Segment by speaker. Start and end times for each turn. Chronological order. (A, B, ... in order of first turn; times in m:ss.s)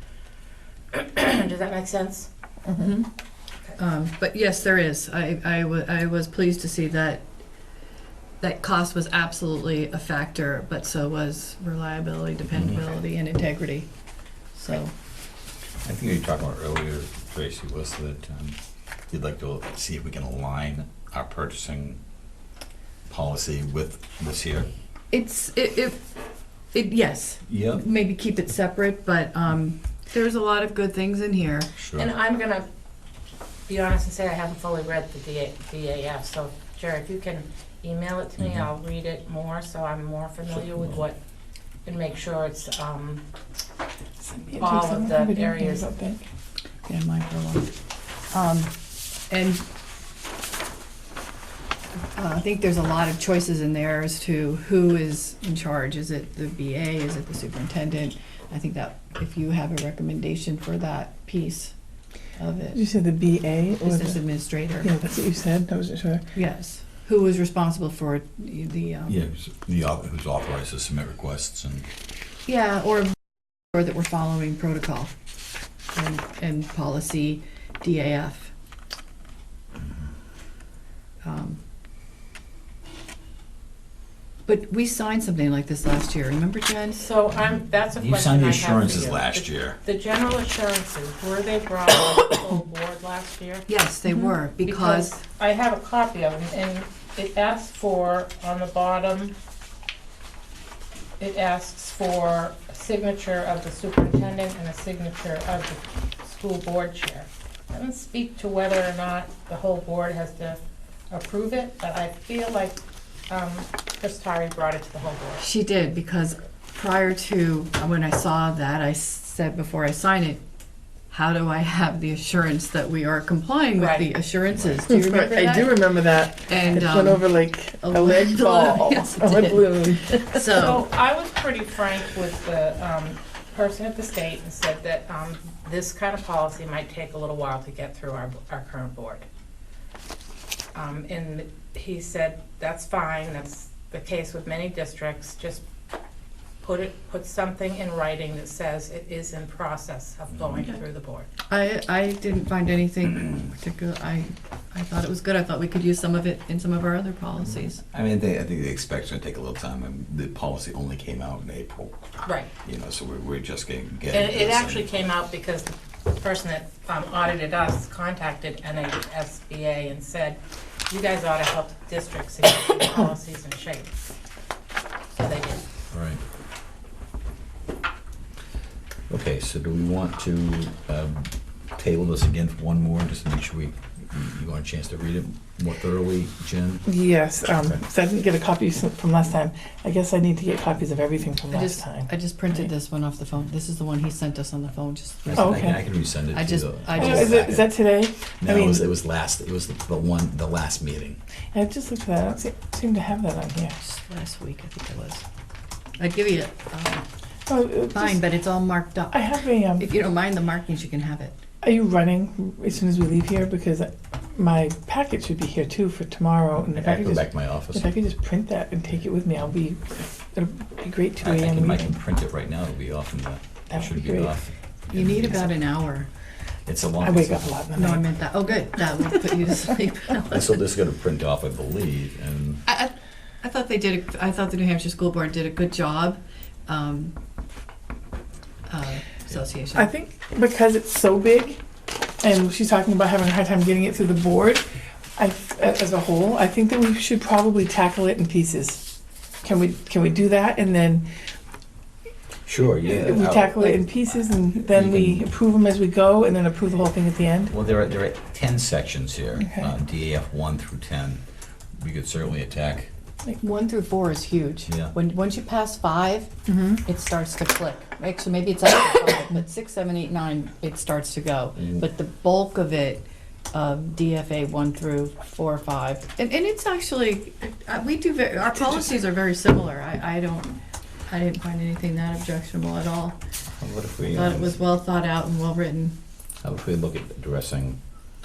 0:00.9-0:02.3 A
0:02.7-0:03.1 B
0:03.8-0:07.2 B
0:08.4-0:13.9 B
0:12.5-0:13.0 C
0:14.5-0:14.9 B
0:15.8-0:18.6 C
0:19.1-0:22.0 C
0:23.1-0:24.7 C
0:25.1-0:26.0 B
0:26.7-0:31.7 B
0:27.5-0:27.8 C
0:31.8-0:32.1 C
0:31.9-0:32.7 A
0:33.7-0:41.2 A
0:38.4-0:38.7 C
0:40.6-0:41.0 C
0:41.8-0:43.2 A
0:44.3-0:45.9 A
0:44.5-0:46.2 D
0:46.8-0:47.7 B
0:48.3-0:48.7 B
0:49.3-0:49.6 B
0:52.1-1:01.7 B
1:02.4-1:02.8 B
1:02.7-1:04.2 D
1:03.8-1:04.9 B
1:04.8-1:06.2 D
1:06.3-1:09.2 B
1:09.0-1:11.9 C
1:12.4-1:13.1 B
1:13.7-1:15.1 B
1:15.9-1:18.5 B
1:21.2-1:21.6 B
1:24.4-1:27.1 B
1:27.0-1:33.7 A
1:27.9-1:29.8 C
1:33.7-1:35.2 B
1:34.6-1:39.4 A
1:41.2-1:55.4 A
1:55.4-2:00.4 B
2:01.1-2:05.9 B
2:03.8-2:04.1 A
2:04.9-2:10.6 D
2:06.5-2:10.8 B
2:10.5-2:19.2 A
2:20.7-2:25.6 A
2:26.6-2:31.3 A
2:31.5-2:37.8 B
2:37.4-2:42.0 C
2:42.2-2:42.5 A
2:42.6-2:44.9 C
2:44.1-2:54.0 A
2:55.1-2:55.6 A
2:55.9-2:56.2 C
2:59.1-3:06.8 C
3:06.8-3:12.7 D
3:11.5-3:17.5 B
3:15.2-3:21.2 C
3:15.4-3:15.8 D
3:17.0-3:18.9 D
3:21.5-3:23.8 D
3:23.8-3:25.2 B
3:26.0-3:27.0 B
3:27.5-3:28.2 D
3:27.9-3:31.4 B
3:29.1-3:29.9 D
3:31.6-3:41.9 D
3:36.7-3:37.9 C
3:41.2-3:45.6 C
3:43.7-3:44.3 D
3:44.9-3:46.1 B
3:46.6-3:47.6 C
3:47.0-3:48.1 D
3:47.7-3:50.5 B
3:50.3-3:52.6 C
3:52.7-3:57.1 B
3:58.7-3:59.9 B
3:59.7-4:01.6 D
4:02.2-4:04.6 D
4:05.2-4:08.8 D
4:09.4-4:11.0 D
4:12.4-4:13.8 C
4:12.8-4:17.5 D
4:14.6-4:15.2 C
4:17.5-4:21.2 C
4:19.4-4:19.7 D
4:21.8-4:22.9 C
4:23.3-4:43.2 B
4:24.7-4:24.9 C
4:26.5-4:26.8 D
4:31.6-4:31.8 C
4:43.6-4:44.6 C
4:44.1-4:46.0 B
4:46.4-4:47.8 C